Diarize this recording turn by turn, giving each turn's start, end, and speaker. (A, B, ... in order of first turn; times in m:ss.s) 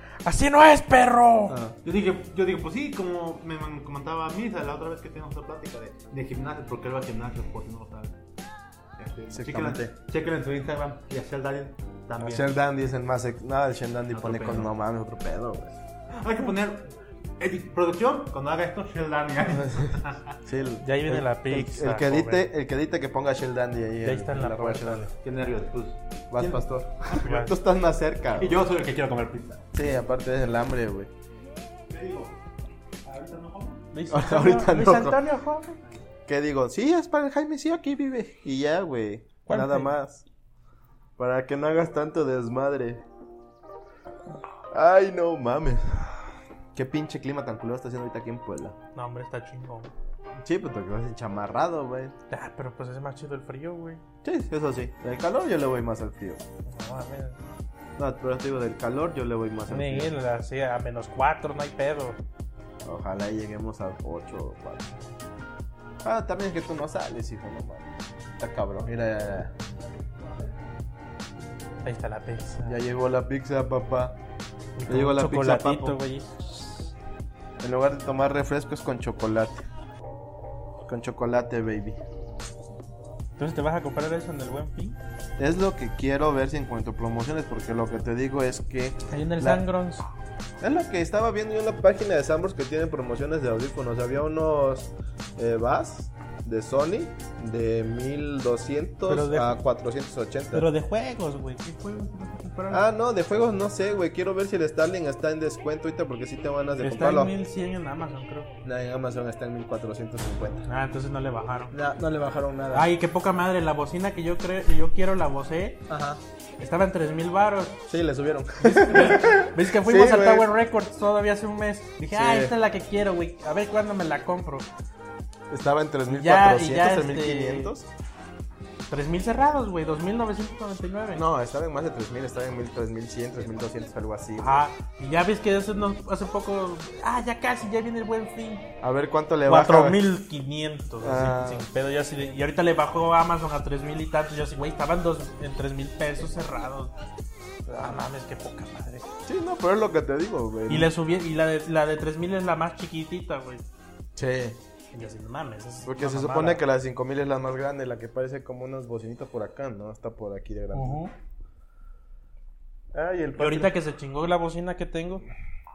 0:00.2-0:01.6 A
0:01.5-0:01.8 B
0:01.8-0:08.2 C
0:09.0-0:12.5 C
0:09.3-0:09.9 B
0:12.2-0:15.8 B
0:14.1-0:14.7 C
0:16.1-0:20.4 C
0:20.4-0:25.1 B
0:20.8-0:22.4 A
0:24.0-0:25.1 A
0:25.2-0:27.5 C
0:26.3-0:28.6 B
0:27.1-0:27.5 A
0:28.3-0:29.7 C
0:29.7-0:31.1 B
0:31.9-0:32.4 C
0:33.0-0:33.8 C
0:33.9-0:35.8 A
0:34.1-0:35.2 B
0:36.3-0:40.2 B
0:39.5-0:39.9 A
0:41.2-0:43.0 B
0:44.7-0:48.8 B
0:48.9-0:49.9 A
0:50.4-0:52.1 B
0:52.3-0:54.0 A
0:54.2-0:56.4 B
0:56.6-0:57.4 A
0:58.0-1:00.1 B
0:59.7-1:02.2 A
1:02.8-1:04.9 B
1:06.0-1:09.5 B
1:11.8-1:12.8 A
1:12.6-1:14.2 B
1:14.8-1:16.9 A
1:14.9-1:16.0 B
1:17.6-1:19.6 B
1:20.8-1:22.0 B
1:23.4-1:25.0 A
1:25.4-1:29.6 B
1:29.1-1:30.0 A
1:30.6-1:40.7 B
1:39.0-1:39.6 A
1:40.5-1:42.8 A
1:42.7-1:47.3 B
1:46.8-1:48.5 A
1:48.6-1:50.6 B
1:50.7-1:51.8 A
1:51.7-1:52.9 B
1:52.7-1:55.8 A
1:55.9-1:56.2 B
1:56.6-1:57.8 A
1:57.9-2:00.5 B
1:58.6-2:04.7 A
2:02.1-2:02.5 B
2:05.5-2:07.9 B
2:06.1-2:07.7 A
2:08.9-2:11.2 A
2:11.1-2:14.6 B
2:14.4-2:18.7 A
2:18.8-2:20.0 B
2:19.4-2:26.9 A
2:21.0-2:21.7 B
2:27.7-2:29.1 A
2:29.2-2:30.9 B
2:30.7-2:33.6 A
2:34.2-2:34.6 B
2:34.9-2:36.6 A
2:35.8-2:41.0 B
2:40.7-2:41.1 A
2:42.9-2:43.7 B
2:43.4-2:45.2 A